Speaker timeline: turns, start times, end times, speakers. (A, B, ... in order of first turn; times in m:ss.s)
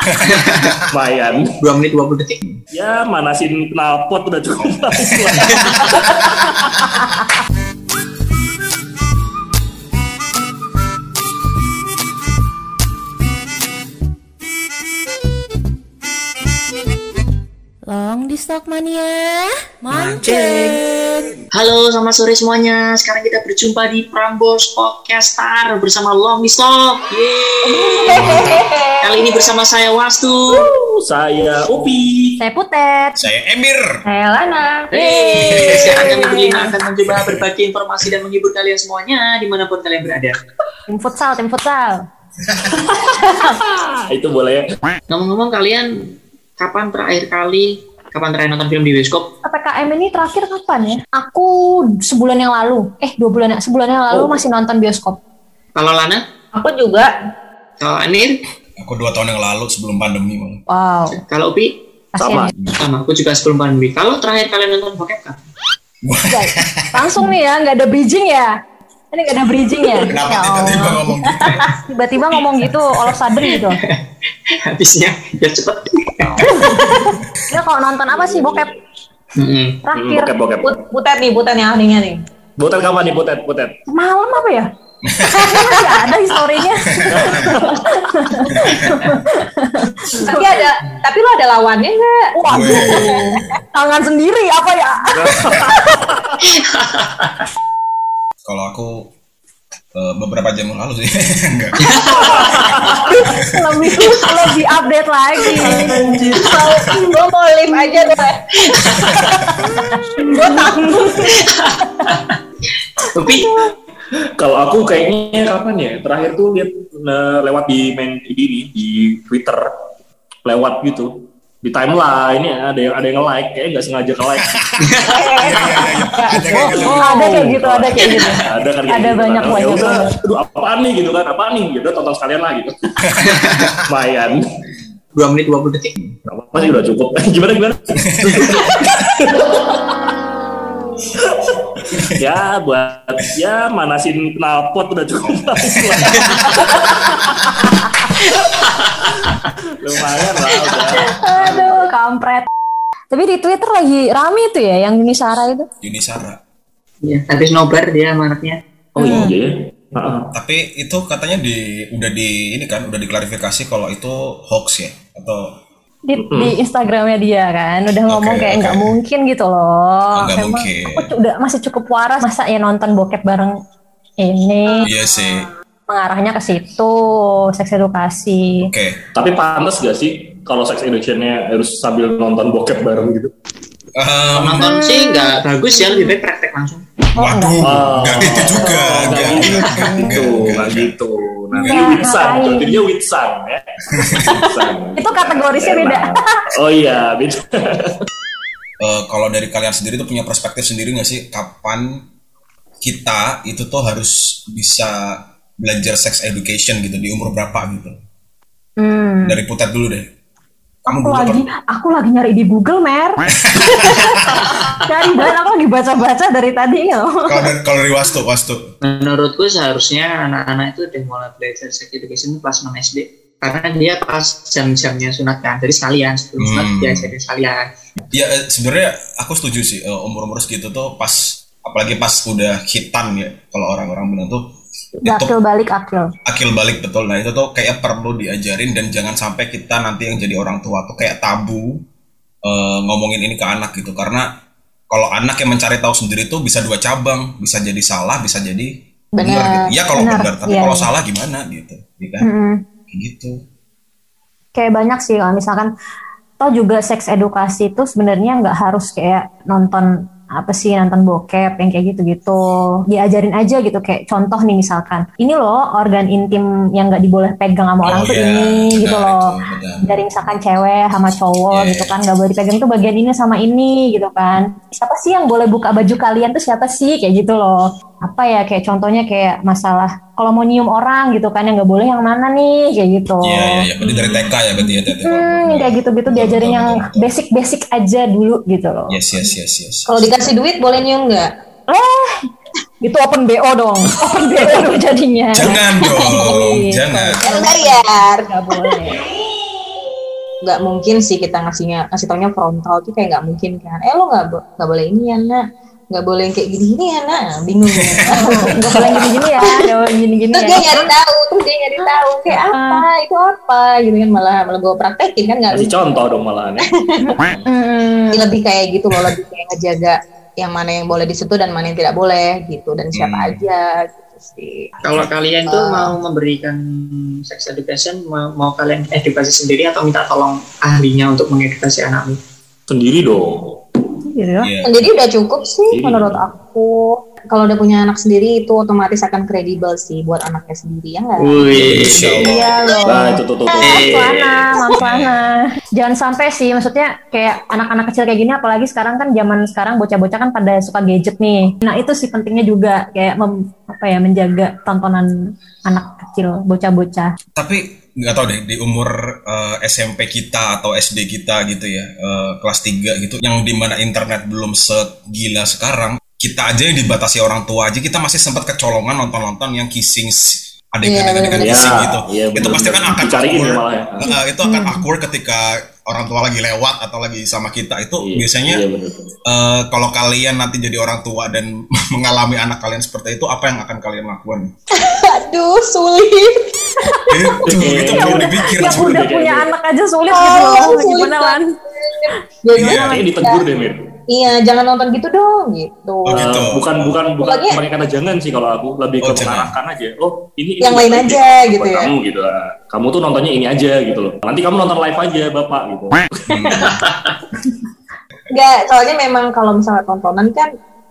0:00.1-0:00.8 A
0:00.2-0:00.7 B
0:00.9-0:01.5 C
0:01.6-0:02.4 B
0:02.7-0:06.6 C
0:17.9-0:21.2 D
0:20.2-0:20.8 B
0:21.5-0:28.4 B
0:27.7-0:29.0 D
0:27.9-0:28.9 E
0:28.1-0:28.6 A
0:29.0-0:30.7 B
0:30.6-0:32.4 C
0:32.4-0:33.2 D
0:33.2-0:34.0 A
0:34.1-0:34.9 E
0:34.9-0:40.4 B
0:35.0-0:36.7 D
0:35.4-0:36.1 A
0:40.9-0:42.0 D
0:42.5-0:42.9 A
0:43.1-0:43.6 D
0:43.5-0:44.6 C
0:45.1-0:45.9 B
0:46.6-0:49.3 B
0:49.4-0:55.2 D
0:54.1-0:54.4 C
0:55.8-0:56.2 B
0:56.5-0:57.1 E
0:57.8-0:58.4 B
0:58.8-1:00.6 A
1:00.7-1:01.2 D
1:01.2-1:01.7 B
1:02.1-1:02.5 D
1:02.2-1:02.5 C
1:02.8-1:05.4 B
1:06.0-1:07.2 A
1:06.3-1:08.5 D
1:09.1-1:13.8 D
1:10.1-1:11.5 A
1:13.4-1:13.8 B
1:14.7-1:16.4 B
1:16.4-1:18.7 D
1:18.1-1:18.7 C
1:19.4-1:19.8 B
1:19.9-1:20.3 D
1:19.9-1:20.8 C
1:20.6-1:22.2 E
1:22.6-1:23.8 C
1:23.9-1:24.7 D
1:25.1-1:25.7 A
1:25.3-1:30.5 D
1:26.8-1:27.5 A
1:27.1-1:27.8 C
1:28.5-1:29.0 A
1:30.2-1:33.3 E
1:32.4-1:36.1 D
1:32.4-1:33.5 A
1:35.1-1:36.3 C
1:36.7-1:37.4 B
1:38.4-1:39.1 A
1:40.0-1:41.8 A
1:41.9-1:42.6 B
1:42.8-1:43.8 A
1:43.0-1:46.8 D
1:45.6-1:46.7 C
1:45.6-1:45.9 B
1:46.4-1:48.4 E
1:48.7-1:49.1 B
1:49.0-1:49.5 A
1:49.6-1:51.3 D
1:50.4-1:51.0 C
1:51.0-1:52.4 B
1:53.0-1:53.5 B
1:54.4-1:59.6 C
2:00.4-2:01.1 C
2:01.6-2:04.5 C
2:04.5-2:04.8 A
2:04.8-2:05.2 B
2:05.1-2:06.3 E
2:05.4-2:07.1 A
2:06.3-2:10.1 D
2:06.7-2:07.5 B
2:07.4-2:12.7 C
2:08.0-2:08.3 B
2:13.0-2:13.9 A
2:13.3-2:13.7 B
2:13.9-2:14.4 C
2:15.2-2:15.9 B
2:16.3-2:19.9 C
2:18.0-2:18.6 A
2:21.3-2:21.6 C
2:22.2-2:27.0 C
2:26.7-2:27.0 D
2:27.6-2:28.0 D
2:29.8-2:31.0 C
2:31.0-2:32.5 D
2:33.1-2:35.7 D
2:35.8-2:36.4 A
2:37.0-2:39.3 B
2:39.0-2:40.3 C
2:39.0-2:39.3 D
2:40.3-2:45.6 A
2:46.1-2:53.5 D
2:46.2-2:46.6 C
2:48.0-2:48.9 A
2:50.2-2:51.1 A
2:54.2-2:54.9 D
2:54.8-2:55.5 A
2:55.9-2:58.7 D
2:58.6-2:59.0 A
2:59.1-3:03.3 C
3:04.0-3:04.6 A
3:04.4-3:06.9 B
3:04.6-3:06.2 D
3:07.2-3:07.6 D
3:07.2-3:11.0 A
3:07.6-3:17.4 C
3:08.4-3:10.2 D
3:11.6-3:12.1 A
3:11.6-3:12.8 D
3:14.3-3:16.5 D
3:18.8-3:22.0 A
3:22.8-3:28.0 A
3:28.8-3:29.4 D
3:29.2-3:30.1 A
3:30.9-3:37.5 D
3:30.9-3:31.4 A
3:33.5-3:34.2 A
3:37.3-3:38.7 A
3:38.8-3:47.7 B
3:46.4-3:47.1 A
3:48.1-3:54.5 A
3:55.0-3:56.1 D
3:55.0-3:55.3 A
3:56.3-4:01.8 A
4:02.5-4:04.2 A
4:04.9-4:12.3 A
4:09.2-4:09.7 E
4:10.0-4:10.9 D
4:12.2-4:12.6 D
4:12.9-4:13.4 A
4:14.6-4:15.7 D
4:16.4-4:29.3 D
4:27.8-4:30.0 A
4:29.8-4:43.7 D
4:31.5-4:31.9 A
4:43.2-4:47.1 A
4:43.8-4:44.3 C
4:44.9-4:49.0 D
4:48.9-4:50.1 A
4:49.9-4:51.3 E
4:51.7-4:52.1 D
4:52.8-4:59.0 D
4:55.3-4:57.2 A
4:57.2-4:58.9 E
5:00.4-5:09.7 E
5:08.1-5:10.9 D
5:10.3-5:15.7 E
5:12.3-5:12.9 D
5:15.5-5:16.7 C
5:16.6-5:17.2 E
5:17.1-5:18.3 D
5:18.1-5:24.7 E
5:22.9-5:23.4 A
5:24.8-5:32.2 B
5:25.5-5:25.9 E
5:32.7-5:33.6 C
5:34.0-5:34.5 D
5:34.4-5:34.9 A
5:34.6-5:41.5 E
5:35.7-5:36.2 C
5:41.2-5:42.1 B
5:41.5-5:42.7 A
5:41.9-5:42.3 C
5:42.2-5:55.1 D
5:42.8-5:44.6 C
5:42.9-5:43.7 E
5:43.8-5:44.1 B
5:44.8-5:45.3 A
5:55.7-5:57.1 D
5:57.4-6:18.6 A
6:10.8-6:12.6 E
6:11.4-6:14.0 C
6:14.0-6:14.8 D
6:18.0-6:19.1 C
6:19.3-6:24.5 A
6:24.8-6:26.3 E
6:26.9-6:31.6 D
6:27.1-6:28.9 A
6:27.5-6:29.5 C
6:30.1-6:33.4 E
6:32.1-6:33.0 D
6:32.5-6:33.0 A
6:32.9-6:33.8 C
6:34.1-6:36.4 E
6:36.1-6:37.0 A
6:36.2-6:46.1 C
6:37.2-6:37.6 E
6:39.0-6:39.6 A
6:40.6-6:41.9 E
6:46.3-6:46.9 A
6:46.6-6:47.1 B
6:48.3-6:50.5 E